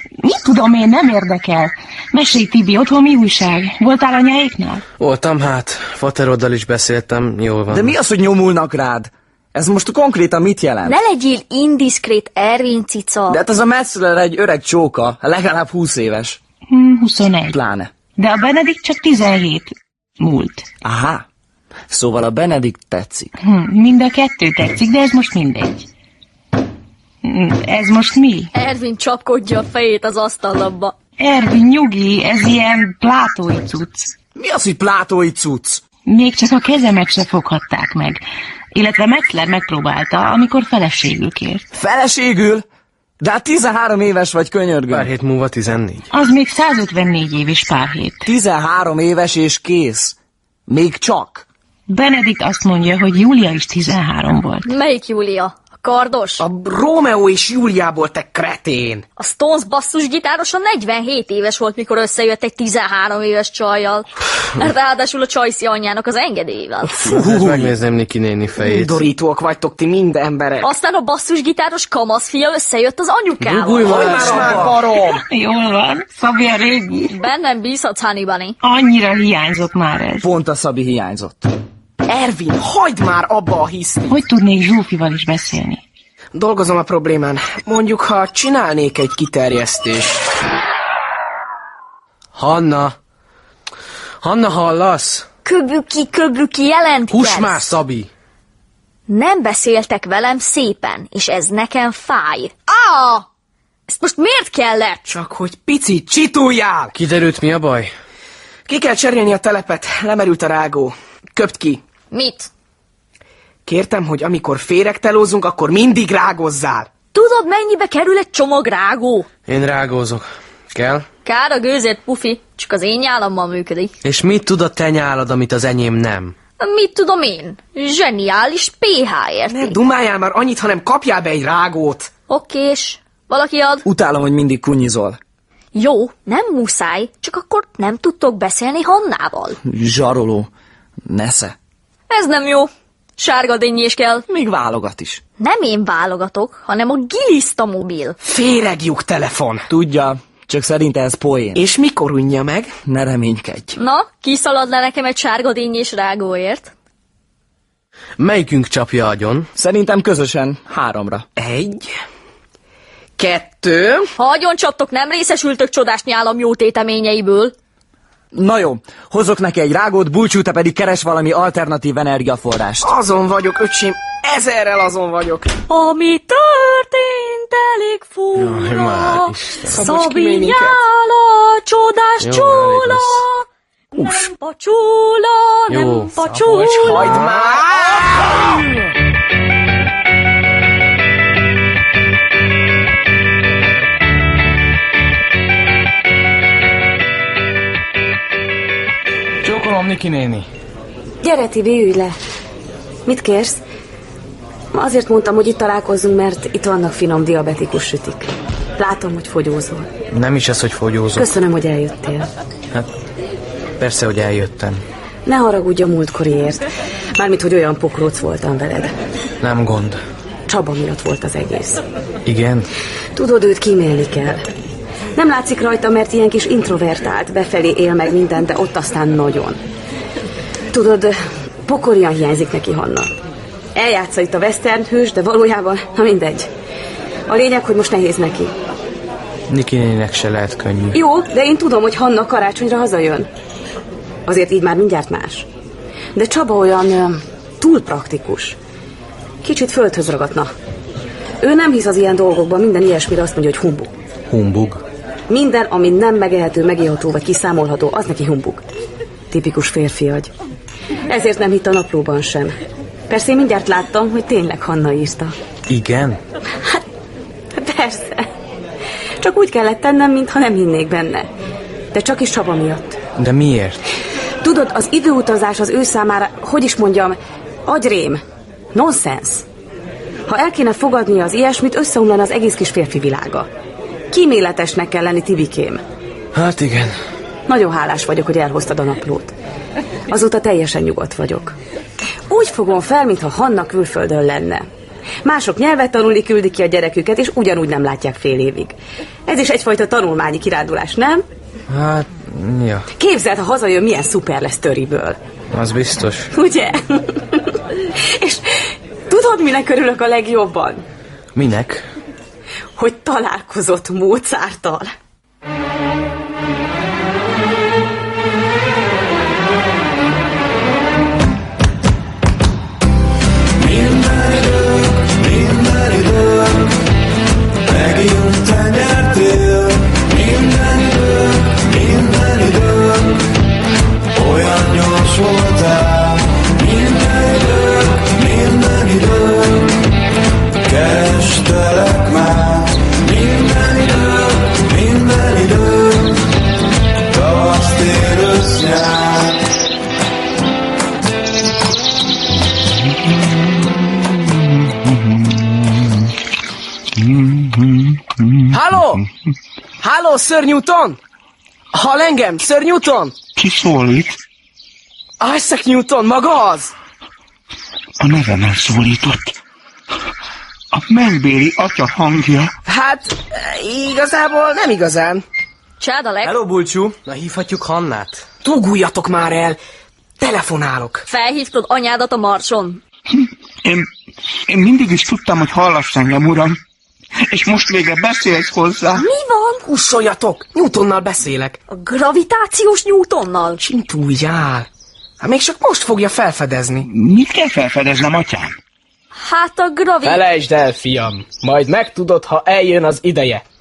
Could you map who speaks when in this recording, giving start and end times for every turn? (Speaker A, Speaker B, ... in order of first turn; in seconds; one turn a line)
Speaker A: 0.2-4.8
Speaker B: 5.0-8.0
Speaker C: 7.7-10.9
Speaker D: 10.8-13.4
Speaker C: 13.3-16.4
Speaker A: 16.7-17.6
Speaker C: 17.5-17.9
Speaker A: 18.2-20.7
Speaker C: 20.8-21.2
Speaker C: 21.9-23.3
Speaker A: 23.4-25.9
Speaker A: 27.2-28.5
Speaker D: 28.5-30.9
Speaker A: 31.2-34.1
Speaker C: 34.4-35.8
Speaker A: 36.1-38.2
Speaker A: 38.7-41.6
Speaker C: 41.7-42.6
Speaker C: 43.2-45.1
Speaker B: 44.9-46.1
Speaker A: 46.1-48.3
Speaker C: 48.3-50.2
Speaker C: 50.7-51.5
Speaker A: 51.9-54.7
Speaker D: 54.6-56.4
Speaker E: 56.4-59.0
Speaker D: 59.2-64.1
Speaker D: 64.6-67.0
Speaker E: 67.0-67.7
Speaker B: 67.0-69.0
Speaker E: 68.6-70.7
Speaker D: 70.6-74.0
Speaker B: 73.4-74.7
Speaker E: 74.0-75.1
Speaker C: 74.3-75.0
Speaker A: 75.2-77.1
Speaker D: 77.1-78.5
Speaker A: 78.6-80.3
Speaker C: 80.2-81.5
Speaker E: 82.1-84.0
Speaker A: 84.1-85.8
Speaker E: 86.3-90.3
Speaker B: 92.4-93.0
Speaker B: 94.2-95.3
Speaker D: 95.5-97.7
Speaker B: 97.1-98.1
Speaker D: 99.1-103.2
Speaker D: 103.9-105.1
Speaker E: 105.1-106.9
Speaker B: 106.9-107.9
Speaker E: 108.7-111.8
Speaker D: 112.1-112.5
Speaker E: 113.7-116.9
Speaker D: 117.1-119.3
Speaker B: 119.5-121.0
Speaker D: 121.2-123.9
Speaker B: 124.0-126.3
Speaker D: 126.6-129.8
Speaker E: 129.5-132.1
Speaker D: 132.3-133.8
Speaker C: 133.8-135.2
Speaker D: 135.8-139.6
Speaker C: 139.6-140.5
Speaker C: 141.1-141.6
Speaker D: 142.1-144.2
Speaker C: 144.3-145.2
Speaker D: 145.4-148.2
Speaker E: 148.2-149.7
Speaker C: 149.7-151.6
Speaker E: 151.6-152.7
Speaker C: 152.8-153.8
Speaker D: 153.8-156.7
Speaker B: 158.2-159.5
Speaker C: 159.6-161.3
Speaker E: 161.4-161.9
Speaker E: 163.2-164.1
Speaker D: 164.2-167.5
Speaker C: 168.3-172.9
Speaker E: 172.8-175.5
Speaker D: 175.7-183.4
Speaker B: 178.3-179.9
Speaker E: 179.8-180.8
Speaker B: 182.2-183.2
Speaker D: 183.9-187.2
Speaker B: 185.7-187.6
Speaker E: 186.9-188.0
Speaker B: 199.4-200.5
Speaker F: 201.2-202.2
Speaker F: 203.1-203.6
Speaker F: 204.7-209.9
Speaker B: 210.1-211.3
Speaker F: 211.2-212.3
Speaker B: 213.8-214.8
Speaker F: 215.3-218.9
Speaker B: 219.4-220.0
Speaker F: 220.5-221.8
Speaker B: 222.3-222.7
Speaker F: 223.2-224.5
Speaker F: 225.2-229.6
Speaker F: 230.7-233.1
Speaker F: 233.8-236.5
Speaker F: 237.3-238.5
Speaker B: 239.5-241.0
Speaker F: 240.9-243.3
Speaker F: 244.3-245.5
Speaker F: 246.2-248.6
Speaker F: 249.4-250.5
Speaker F: 251.4-253.9
Speaker B: 254.3-254.8
Speaker F: 255.3-258.6
Speaker F: 259.3-260.3
Speaker F: 261.1-262.6
Speaker F: 263.1-265.3
Speaker B: 265.7-266.2
Speaker F: 267.6-268.3
Speaker F: 269.2-271.3
Speaker F: 271.9-273.0
Speaker B: 273.2-273.8
Speaker F: 274.4-278.2
Speaker F: 278.7-279.4
Speaker F: 280.3-283.5
Speaker F: 284.1-285.8
Speaker B: 286.4-286.9
Speaker F: 287.5-289.3
Speaker F: 290.1-291.6
Speaker F: 292.3-294.7
Speaker F: 295.2-298.8
Speaker F: 299.3-301.2
Speaker B: 301.7-302.9
Speaker F: 303.0-305.2
Speaker B: 305.5-306.3
Speaker F: 306.3-307.6
Speaker F: 308.2-310.9
Speaker B: 311.4-311.8
Speaker F: 312.8-314.9
Speaker G: 323.6-326.8
Speaker G: 327.6-333.3
Speaker G: 334.1-339.8
Speaker G: 340.6-346.3
Speaker G: 347.1-349.4
Speaker H: 357.0-358.4
Speaker E: 358.5-359.1
Speaker E: 359.8-361.0
Speaker E: 361.7-363.2
Speaker H: 363.4-364.2
Speaker E: 365.2-366.7
Speaker H: 368.0-369.4
Speaker H: 370.7-372.5
Speaker E: 372.7-375.2
Speaker D: 375.8-376.3
Speaker C: 376.2-377.0
Speaker B: 377.1-378.2
Speaker E: 378.4-379.6
Speaker E: 380.2-381.1
Speaker D: 381.1-382.8
Speaker H: 384.5-386.6
Speaker H: 387.3-389.0
Speaker D: 389.0-389.6
Speaker E: 389.6-391.6
Speaker D: 391.7-393.6
Speaker E: 393.6-394.7
Speaker E: 395.2-396.9
Speaker H: 396.9-398.6
Speaker D: 399.1-400.2
Speaker E: 400.0-403.4